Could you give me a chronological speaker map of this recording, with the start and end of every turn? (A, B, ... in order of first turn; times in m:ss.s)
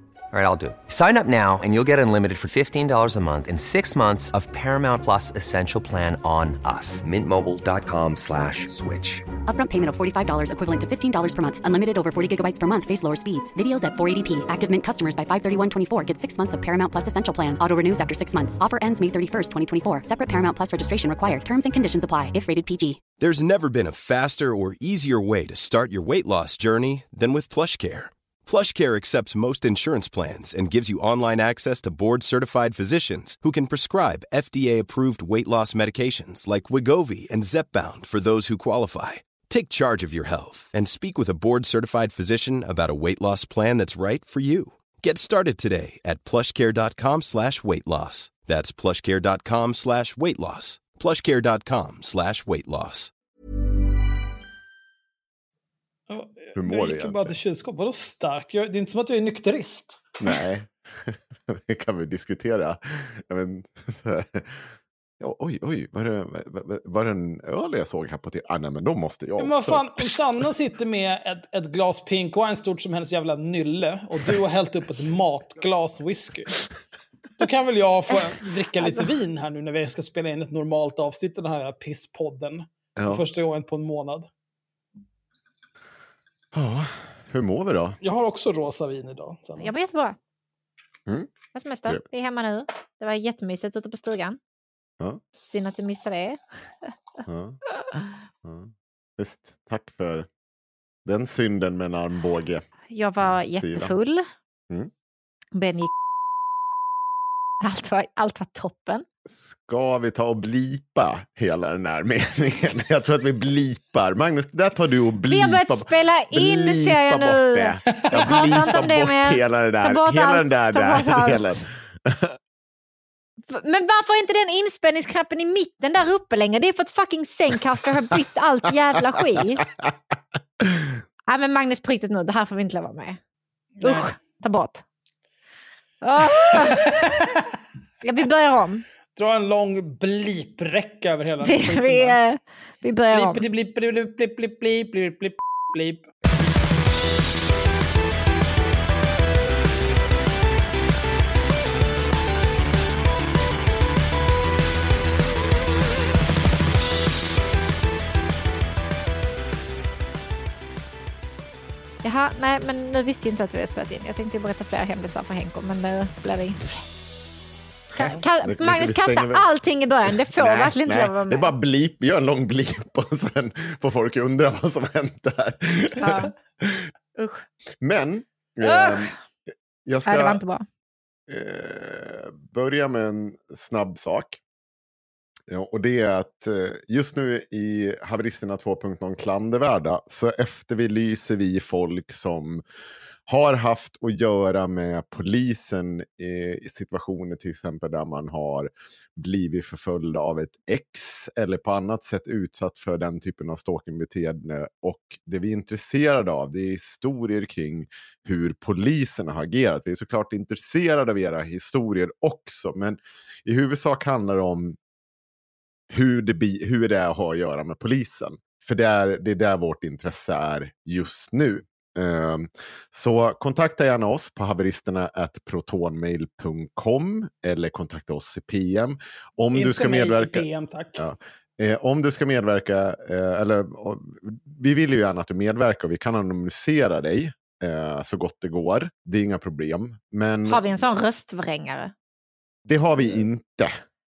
0:00.3-0:09.3 A
0:09.5-0:23.0 B
0:23.2-0:53.1 C
0:56.1-1:00.1 D
0:56.6-0:57.3 E
1:00.2-1:04.7 E
1:05.2-1:10.4 E
1:09.4-1:16.6 D
1:17.4-1:24.3 D
1:18.8-1:19.0 F
1:23.0-1:23.2 E
1:26.5-1:28.0 E
1:28.0-1:29.7 D
1:29.6-1:30.2 F
1:31.5-1:34.4 F
1:35.3-1:36.9 F
1:37.3-1:37.6 E
1:38.4-1:40.3 E
1:41.0-1:42.6 E
1:42.9-1:44.3 F
1:43.2-1:43.9 E
1:45.6-1:45.9 F
1:47.6-1:49.0 F
1:49.3-2:02.4 E
1:55.3-2:01.4 F
1:58.0-1:58.6 D
2:03.5-2:09.7 F
2:10.6-2:10.9 E
2:11.3-2:13.2 F
2:13.8-2:14.1 D
2:13.8-2:14.8 F
2:16.0-2:17.3 F
2:18.0-2:18.8 F
2:19.2-2:22.2 D
2:21.4-2:23.4 F
2:23.1-2:26.1 D
2:42.0-2:46.9 F
2:48.0-2:51.5 F
2:48.0-2:49.5 E
2:50.1-2:56.9 E
2:56.0-2:56.3 F
2:57.2-2:57.4 F
2:57.8-2:59.1 E
2:58.6-2:59.1 F
2:59.8-3:00.4 E
3:00.1-3:00.6 F
3:01.3-3:04.4 E
3:05.5-3:12.6 E
3:13.3-3:34.8 E
3:35.9-3:50.4 E
3:49.5-3:51.0 D
3:51.0-4:00.8 E
4:00.5-4:01.9 F
4:02.7-4:03.7 E